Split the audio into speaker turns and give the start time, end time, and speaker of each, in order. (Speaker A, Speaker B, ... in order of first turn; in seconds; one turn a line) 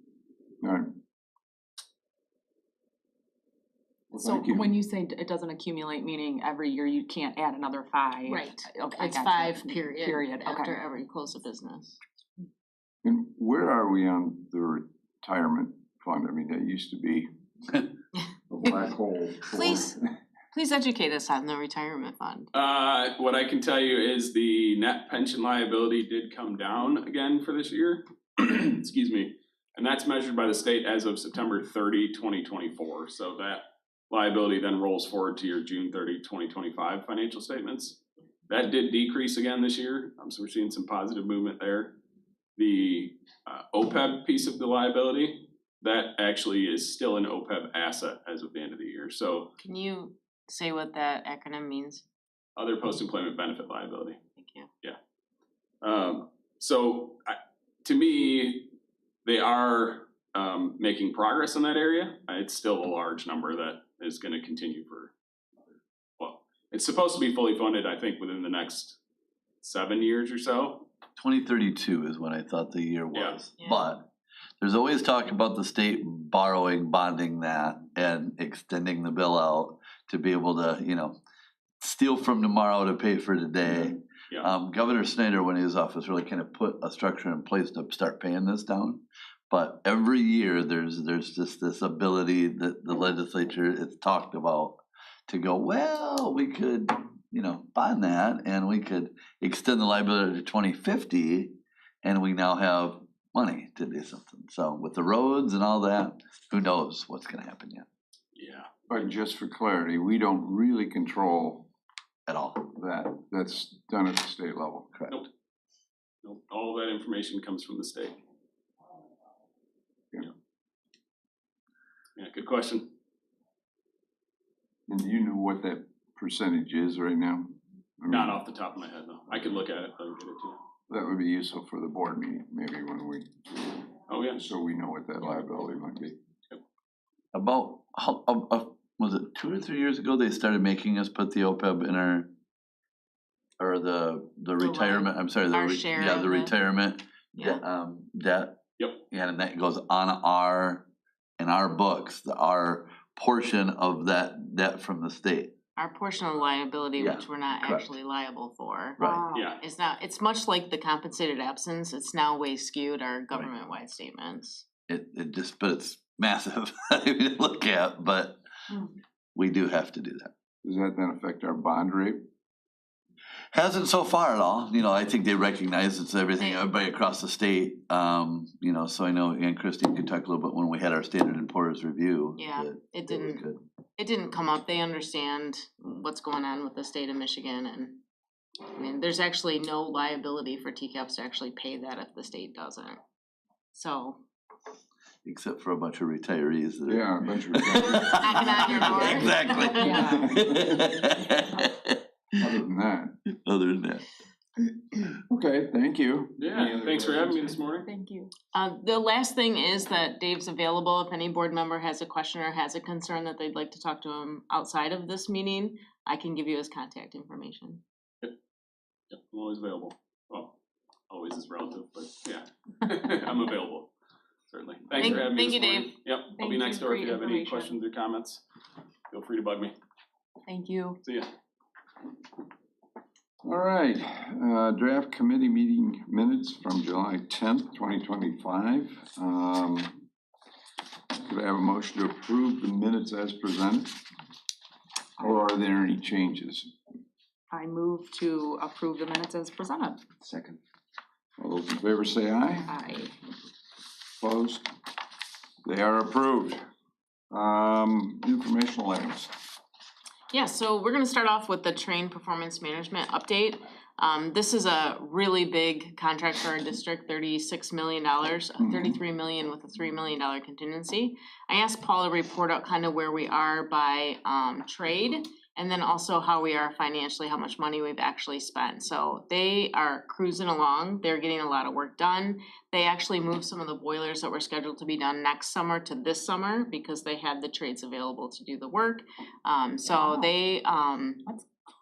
Speaker A: 0.6-0.9
Speaker A: 4.1-4.7
Speaker B: 4.2-10.8
Speaker C: 8.3-12.0
Speaker A: 13.0-17.3
Speaker A: 18.5-20.0
Speaker C: 19.5-20.0
Speaker C: 20.5-22.5
Speaker D: 22.5-42.0
Speaker D: 42.6-49.5
Speaker C: 49.6-52.0
Speaker D: 52.5-54.2
Speaker C: 54.4-54.7
Speaker D: 55.8-58.7
Speaker D: 59.2-65.1
Speaker D: 66.2-69.0
Speaker D: 69.6-70.9
Speaker E: 71.2-81.2
Speaker C: 73.6-73.9
Speaker E: 81.8-107.8
Speaker D: 108.3-109.1
Speaker A: 108.9-111.7
Speaker E: 112.3-112.7
Speaker A: 112.7-114.9
Speaker D: 116.2-118.2
Speaker D: 122.2-122.9
Speaker A: 124.9-128.4
Speaker D: 128.1-130.6
Speaker A: 130.9-136.2
Speaker D: 134.1-134.4
Speaker E: 137.3-142.3
Speaker E: 143.6-150.9
Speaker C: 144.6-146.5
Speaker C: 147.3-147.6
Speaker E: 151.4-155.5
Speaker C: 155.8-164.6
Speaker E: 157.0-157.9
Speaker B: 159.0-159.3
Speaker D: 159.3-159.6
Speaker E: 164.9-168.4
Speaker E: 169.3-170.3
Speaker A: 170.6-172.2
Speaker E: 173.5-183.6
Speaker C: 182.3-183.4
Speaker C: 184.0-188.0
Speaker C: 188.7-193.0
Speaker C: 193.7-194.2
Speaker E: 195.2-202.0
Speaker A: 196.9-199.5
Speaker C: 198.1-200.1
Speaker B: 199.6-200.3
Speaker A: 200.0-200.8
Speaker A: 202.4-203.1
Speaker E: 203.3-204.1
Speaker A: 205.1-207.6
Speaker D: 206.4-207.8
Speaker B: 207.8-208.3
Speaker C: 208.5-217.8
Speaker D: 219.1-220.5
Speaker D: 221.1-223.9
Speaker D: 224.5-228.4
Speaker C: 225.0-226.0
Speaker B: 226.3-227.7
Speaker D: 229.1-229.7
Speaker B: 230.5-231.0
Speaker D: 231.0-231.3
Speaker A: 233.4-240.0
Speaker A: 241.2-244.0
Speaker A: 245.2-246.7
Speaker B: 247.5-250.1
Speaker A: 251.4-252.7
Speaker B: 252.6-253.1
Speaker A: 254.2-254.7
Speaker A: 255.6-256.6
Speaker A: 257.3-259.3
Speaker C: 260.3-291.2
Speaker A: 268.6-269.0
Speaker B: 290.0-290.3